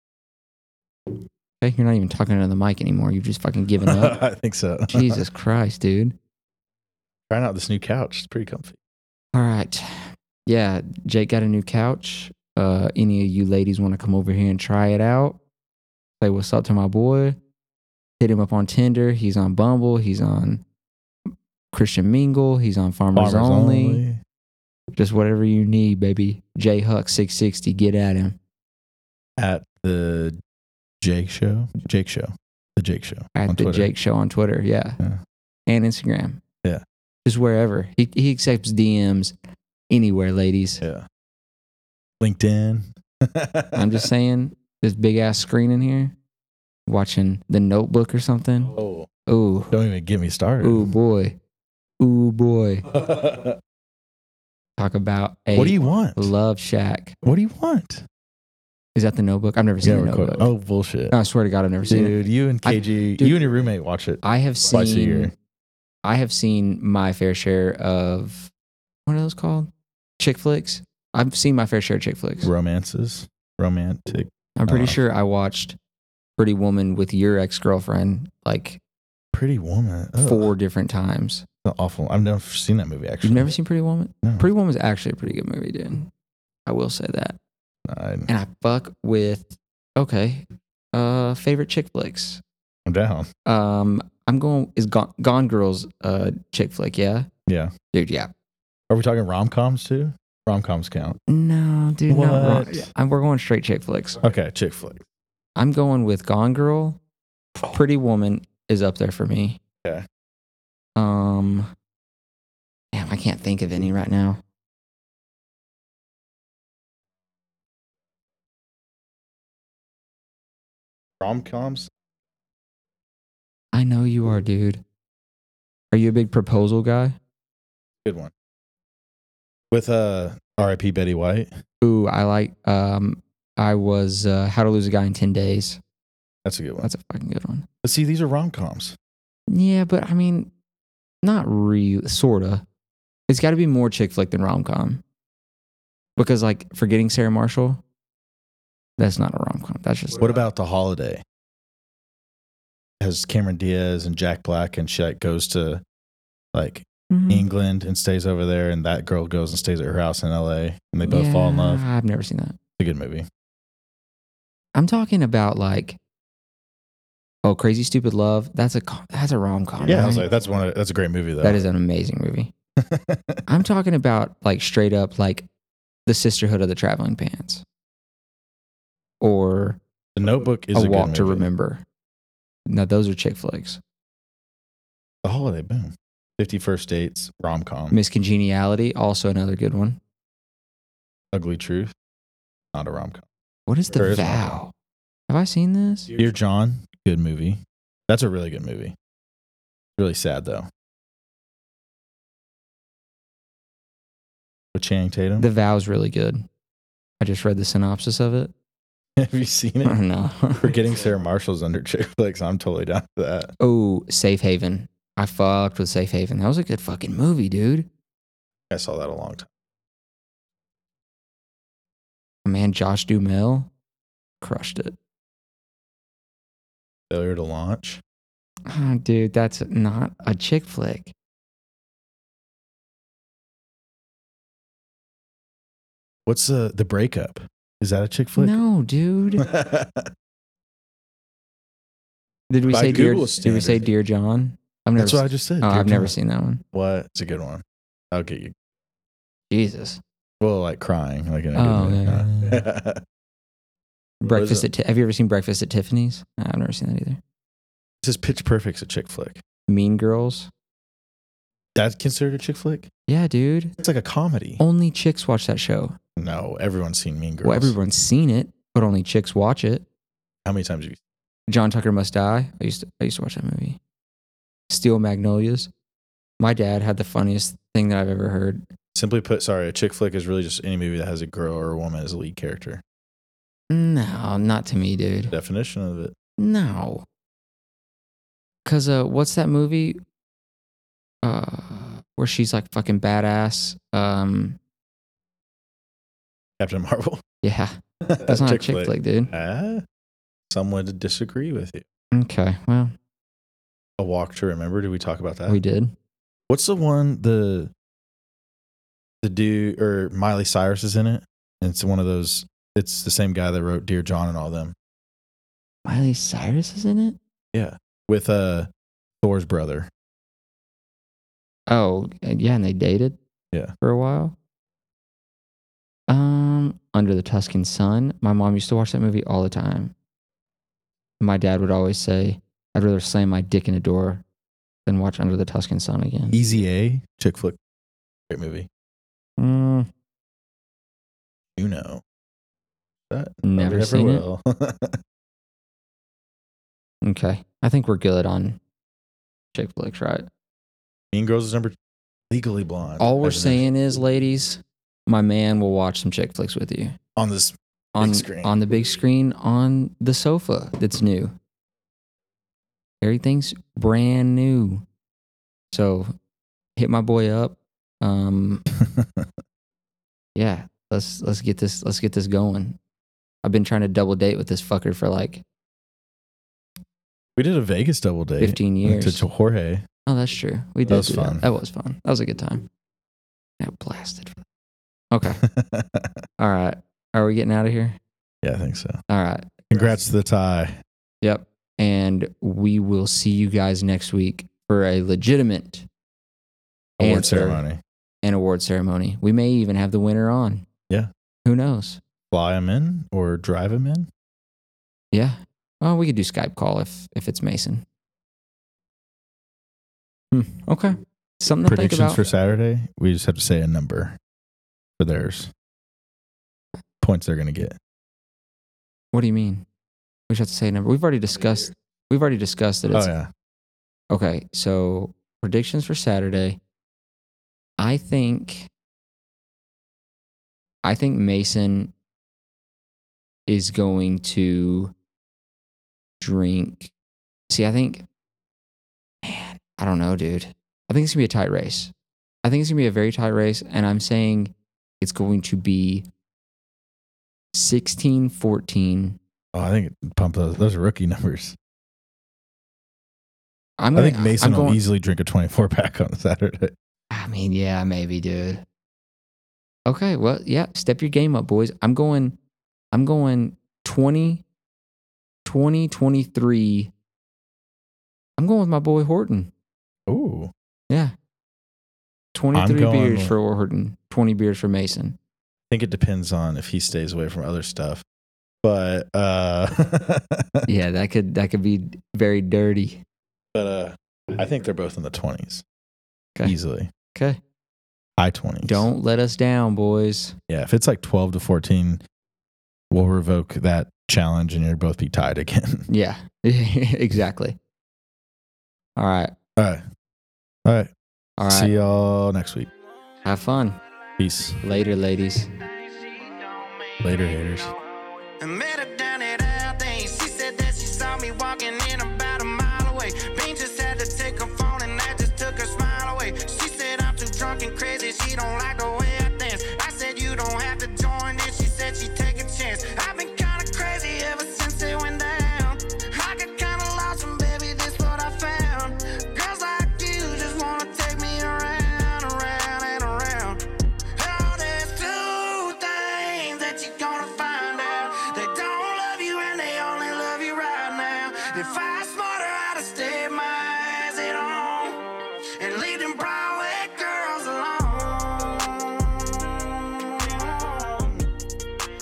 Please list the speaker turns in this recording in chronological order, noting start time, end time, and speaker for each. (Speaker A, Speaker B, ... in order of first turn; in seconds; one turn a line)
Speaker A: 1.6-4.2
Speaker B: 3.8-5.2
Speaker A: 4.9-6.2
Speaker B: 7.3-8.8
Speaker A: 9.3-15.4
Speaker A: 16.2-17.4
Speaker A: 18.2-20.6
Speaker A: 21.7-24.0
Speaker B: 23.1-24.2
Speaker A: 24.9-28.4
Speaker B: 29.4-30.4
Speaker B: 31.0-33.9
Speaker A: 33.3-35.0
Speaker A: 35.7-36.4
Speaker A: 37.2-39.3
Speaker A: 39.9-40.8
Speaker B: 40.8-41.1
Speaker B: 42.2-44.0
Speaker A: 43.7-46.1
Speaker A: 46.9-48.7
Speaker B: 48.7-49.1
Speaker A: 49.3-49.7
Speaker B: 49.7-50.9
Speaker A: 50.6-51.4
Speaker A: 52.0-52.9
Speaker B: 52.9-53.6
Speaker A: 54.8-57.1
Speaker B: 55.5-56.3
Speaker B: 57.2-58.0
Speaker A: 59.0-60.5
Speaker B: 59.8-61.1
Speaker A: 61.1-63.4
Speaker B: 61.9-65.3
Speaker A: 64.2-65.3
Speaker A: 66.0-68.5
Speaker A: 69.1-69.7
Speaker A: 70.2-72.5
Speaker B: 72.4-75.0
Speaker A: 74.6-75.8
Speaker A: 76.4-78.8
Speaker B: 79.3-80.5
Speaker A: 80.2-81.5
Speaker B: 81.6-83.5
Speaker A: 83.2-86.1
Speaker B: 84.2-84.5
Speaker A: 86.7-87.4
Speaker B: 87.9-88.3
Speaker A: 88.3-92.4
Speaker B: 92.9-93.3
Speaker A: 93.5-97.3
Speaker B: 97.5-97.7
Speaker A: 97.9-98.3
Speaker B: 98.9-101.2
Speaker A: 101.3-104.2
Speaker B: 102.1-102.9
Speaker B: 104.2-105.0
Speaker A: 105.5-107.0
Speaker A: 107.6-109.6
Speaker A: 111.0-111.7
Speaker A: 112.9-114.4
Speaker B: 121.2-121.9
Speaker A: 123.7-124.8
Speaker A: 125.9-127.2
Speaker B: 128.1-128.3
Speaker B: 129.7-131.5
Speaker A: 131.8-135.8
Speaker B: 136.4-136.9
Speaker A: 136.8-137.7
Speaker B: 137.8-138.9
Speaker A: 139.5-140.5
Speaker A: 141.2-142.6
Speaker A: 143.3-145.0
Speaker A: 146.2-147.8
Speaker A: 149.0-150.2
Speaker B: 150.2-151.2
Speaker B: 153.0-155.8
Speaker B: 156.5-161.8
Speaker A: 157.1-157.4
Speaker A: 161.0-162.6
Speaker B: 162.8-163.3
Speaker A: 164.7-166.0
Speaker A: 167.4-170.2
Speaker B: 169.8-171.6
Speaker A: 171.4-172.5
Speaker B: 172.8-173.5
Speaker A: 173.5-175.4
Speaker A: 176.1-177.6
Speaker A: 179.2-179.8
Speaker B: 180.2-181.4
Speaker A: 180.7-181.8
Speaker A: 182.7-183.8
Speaker B: 185.2-187.9
Speaker A: 187.9-190.0
Speaker B: 191.3-191.9
Speaker B: 192.7-193.3
Speaker A: 193.7-194.7
Speaker B: 193.9-194.6
Speaker A: 195.3-196.1
Speaker B: 196.1-198.9
Speaker B: 200.0-200.7
Speaker B: 204.7-205.5
Speaker A: 205.4-206.4
Speaker A: 207.2-208.5
Speaker B: 209.2-210.0
Speaker A: 209.8-210.7
Speaker B: 210.6-213.5
Speaker A: 213.6-217.9
Speaker B: 218.7-219.5
Speaker A: 222.4-223.7
Speaker A: 224.4-224.9
Speaker B: 227.1-228.0
Speaker A: 228.7-231.1
Speaker B: 236.3-238.6
Speaker A: 238.4-239.4
Speaker B: 239.4-240.1
Speaker A: 242.5-246.6
Speaker B: 242.7-243.9
Speaker B: 244.9-246.1
Speaker B: 246.7-248.5
Speaker A: 249.5-250.0
Speaker B: 250.4-253.0
Speaker A: 251.6-252.6
Speaker A: 254.2-257.2
Speaker B: 254.2-254.7
Speaker B: 258.0-259.4
Speaker A: 259.7-260.5
Speaker B: 261.8-262.9
Speaker A: 263.1-263.7
Speaker B: 263.8-264.6
Speaker A: 264.6-266.0
Speaker B: 266.2-267.7
Speaker A: 267.4-269.8
Speaker B: 270.4-271.0
Speaker A: 271.5-273.8
Speaker A: 274.7-275.7
Speaker A: 276.4-278.6
Speaker B: 278.9-282.8
Speaker A: 283.7-285.3
Speaker B: 285.3-286.1
Speaker A: 286.4-287.1
Speaker A: 288.6-290.0
Speaker A: 291.2-294.6
Speaker B: 296.6-297.2
Speaker A: 297.4-299.3
Speaker B: 298.0-299.8
Speaker B: 300.5-301.8
Speaker A: 302.1-302.9
Speaker B: 304.0-305.6
Speaker A: 305.5-305.9
Speaker B: 306.5-307.7
Speaker B: 309.2-314.7
Speaker A: 315.8-317.2
Speaker B: 317.5-318.7
Speaker B: 319.2-319.9
Speaker A: 321.7-323.2
Speaker A: 323.8-324.3
Speaker A: 326.1-329.9
Speaker A: 331.2-334.2
Speaker A: 334.9-336.4
Speaker B: 336.3-337.6
Speaker B: 338.3-338.7
Speaker A: 339.4-339.9
Speaker B: 341.6-342.0
Speaker B: 343.1-345.0
Speaker A: 343.4-344.3
Speaker A: 347.0-348.6
Speaker A: 349.6-350.3
Speaker B: 351.1-351.7
Speaker B: 352.3-353.6
Speaker A: 353.0-356.9
Speaker B: 357.1-358.6
Speaker A: 357.9-361.3
Speaker A: 363.0-364.8
Speaker A: 365.7-366.1
Speaker A: 366.8-368.6
Speaker B: 368.8-369.3
Speaker A: 370.4-372.8
Speaker A: 373.4-375.4
Speaker B: 377.4-379.8
Speaker A: 378.4-379.3
Speaker A: 380.1-382.6
Speaker B: 380.9-381.4
Speaker A: 383.6-384.4
Speaker A: 385.1-385.4
Speaker B: 385.3-386.1
Speaker A: 386.4-388.0
Speaker B: 388.4-389.0
Speaker A: 389.1-389.6
Speaker B: 389.7-390.8
Speaker A: 391.2-395.9
Speaker B: 397.0-397.8
Speaker A: 397.0-397.6
Speaker A: 398.2-400.6
Speaker A: 401.4-402.0
Speaker B: 402.3-404.1
Speaker A: 405.1-407.8
Speaker A: 410.3-412.2
Speaker B: 411.6-414.2
Speaker B: 415.0-415.5
Speaker B: 417.0-417.8
Speaker A: 419.1-419.6
Speaker A: 420.3-423.1
Speaker B: 422.9-423.3
Speaker A: 424.1-426.6
Speaker A: 427.8-428.7
Speaker A: 430.8-431.9
Speaker A: 433.5-434.9
Speaker A: 436.2-436.9
Speaker A: 437.5-438.1
Speaker A: 439.2-441.9
Speaker A: 442.4-446.1
Speaker A: 447.5-449.2
Speaker B: 449.5-451.6
Speaker A: 453.8-454.8
Speaker B: 453.9-456.7
Speaker A: 457.1-458.6
Speaker A: 459.9-462.4
Speaker A: 462.9-464.4
Speaker A: 465.4-466.9
Speaker A: 468.4-469.5
Speaker B: 470.1-470.5
Speaker A: 472.3-475.2
Speaker B: 472.5-473.3
Speaker B: 475.7-478.0
Speaker B: 478.6-480.6
Speaker A: 480.7-483.0
Speaker B: 483.5-485.6
Speaker B: 486.4-486.9
Speaker B: 488.2-488.9
Speaker A: 488.6-490.4
Speaker B: 490.5-492.0
Speaker B: 492.9-495.9
Speaker A: 495.9-497.6
Speaker A: 499.0-499.3
Speaker B: 499.6-499.8
Speaker B: 500.6-500.9
Speaker A: 501.4-501.7
Speaker B: 501.4-502.7
Speaker A: 503.2-503.8
Speaker B: 504.2-504.6
Speaker A: 504.6-505.5
Speaker C: 505.8-507.8
Speaker B: 507.0-507.7
Speaker C: 508.4-533.6
Speaker C: 534.1-545.0
Speaker C: 545.6-551.3